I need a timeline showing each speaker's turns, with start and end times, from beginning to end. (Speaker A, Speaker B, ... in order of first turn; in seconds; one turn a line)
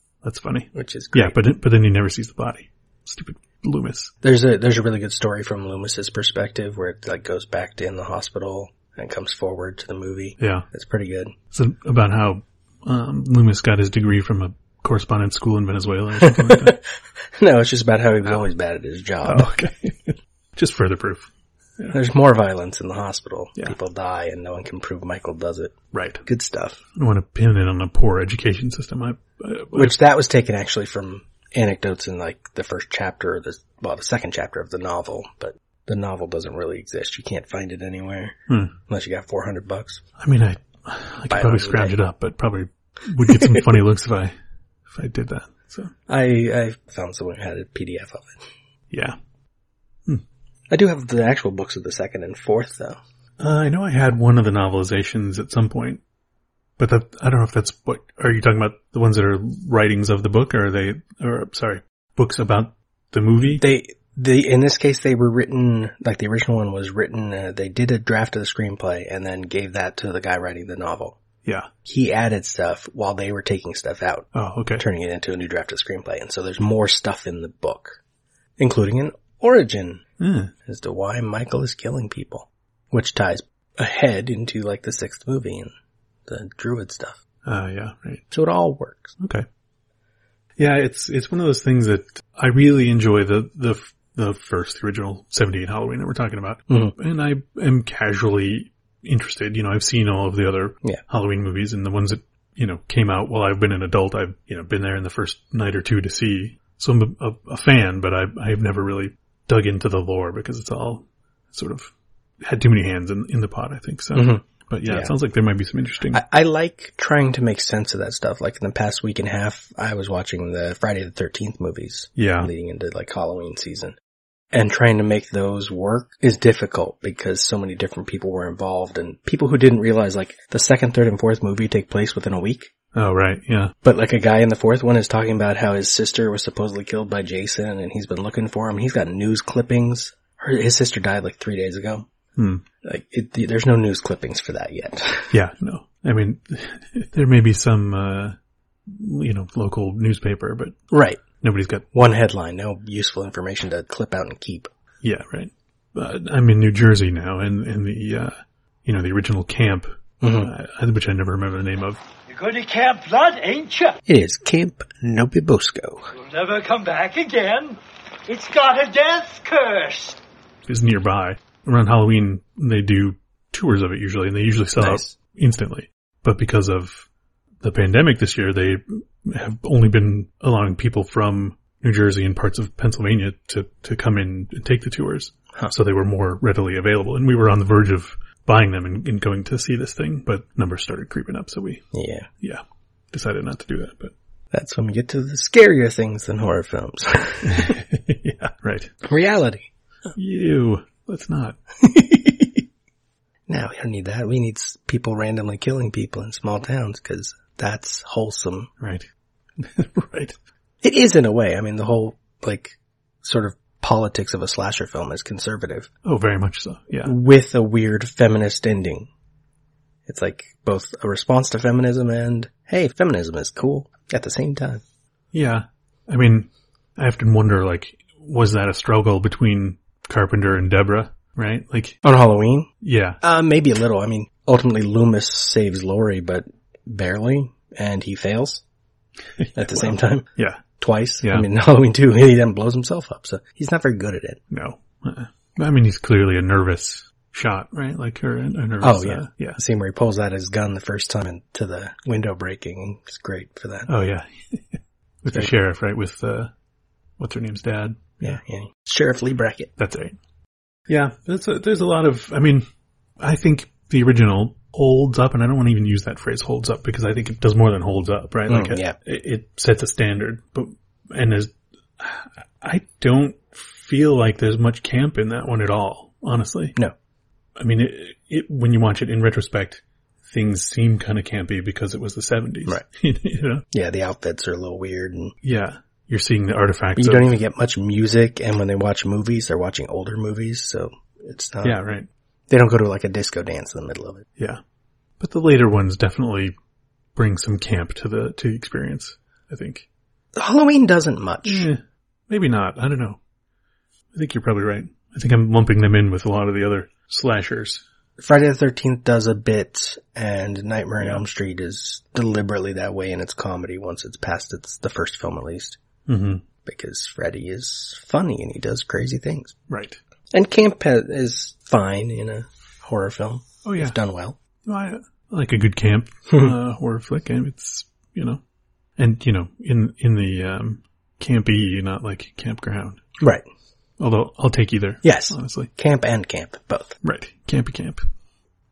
Speaker A: 0.2-4.1
Speaker B: 0.7-1.4
Speaker B: 4.2-11.3
Speaker A: 10.4-10.7
Speaker A: 11.5-16.8
Speaker B: 16.2-16.8
Speaker B: 17.4-19.6
Speaker A: 19.2-22.0
Speaker B: 21.9-26.8
Speaker A: 25.9-26.2
Speaker A: 26.9-30.0
Speaker B: 29.7-38.4
Speaker A: 38.5-38.8
Speaker B: 38.9-40.0
Speaker A: 40.2-44.3
Speaker B: 41.3-42.0
Speaker B: 43.2-43.6
Speaker A: 44.9-45.9
Speaker B: 46.1-48.3
Speaker A: 48.9-49.1
Speaker B: 50.7-53.0
Speaker A: 53.4-56.0
Speaker A: 56.8-63.6
Speaker B: 63.4-71.2
Speaker B: 71.8-78.0
Speaker A: 74.3-74.8
Speaker B: 78.6-80.0
Speaker A: 80.2-80.5
Speaker B: 80.7-85.7
Speaker B: 86.3-87.2
Speaker A: 87.4-88.2
Speaker B: 88.3-89.2
Speaker A: 89.2-89.4
Speaker A: 90.6-111.9
Speaker B: 96.7-96.9
Speaker A: 112.4-116.2
Speaker B: 114.1-115.1
Speaker B: 116.1-124.0
Speaker A: 122.2-122.5
Speaker B: 124.5-132.7
Speaker A: 132.9-133.7
Speaker B: 133.8-142.1
Speaker A: 142.3-142.6
Speaker B: 142.8-145.3
Speaker A: 145.3-148.3
Speaker A: 148.9-150.8
Speaker B: 150.9-151.2
Speaker A: 151.4-151.9
Speaker B: 151.9-154.7
Speaker A: 155.0-158.3
Speaker A: 158.8-162.0
Speaker B: 160.2-160.5
Speaker C: 162.4-163.9
Speaker B: 164.1-166.0
Speaker C: 166.3-170.2
Speaker A: 170.6-177.1
Speaker B: 174.8-175.1
Speaker A: 177.6-191.8
Speaker B: 191.9-192.3
Speaker A: 192.4-194.1
Speaker B: 194.5-197.7
Speaker A: 197.4-198.9
Speaker B: 199.0-199.7
Speaker A: 200.1-201.6
Speaker B: 201.8-202.6
Speaker B: 203.5-208.7
Speaker A: 208.8-209.1
Speaker A: 209.6-210.4
Speaker B: 210.8-215.9
Speaker A: 216.0-217.1
Speaker B: 217.0-219.1
Speaker B: 220.1-224.8
Speaker A: 225.3-232.0
Speaker B: 232.0-232.7
Speaker A: 232.8-233.2
Speaker B: 233.2-238.6
Speaker A: 239.4-240.6
Speaker B: 239.6-244.4
Speaker A: 244.5-249.6
Speaker B: 248.8-253.9
Speaker A: 253.9-256.5
Speaker A: 257.2-258.4
Speaker B: 258.2-259.7
Speaker A: 259.8-260.1
Speaker A: 260.9-262.6
Speaker A: 263.2-276.8
Speaker B: 268.5-268.9
Speaker A: 277.6-283.6
Speaker B: 283.7-285.3
Speaker A: 285.4-287.4
Speaker B: 286.9-291.8
Speaker A: 291.6-292.1
Speaker B: 292.5-294.3
Speaker A: 295.2-296.5
Speaker A: 297.1-299.9
Speaker B: 300.3-301.7
Speaker A: 301.4-303.2
Speaker A: 304.1-307.8
Speaker B: 308.2-315.8
Speaker A: 316.1-316.4
Speaker B: 316.6-319.5
Speaker A: 319.7-320.0
Speaker B: 320.3-324.4
Speaker A: 323.6-324.0
Speaker A: 324.6-328.4
Speaker B: 326.3-326.6
Speaker A: 329.0-333.0
Speaker A: 334.0-335.7
Speaker B: 335.0-337.0
Speaker A: 337.0-338.0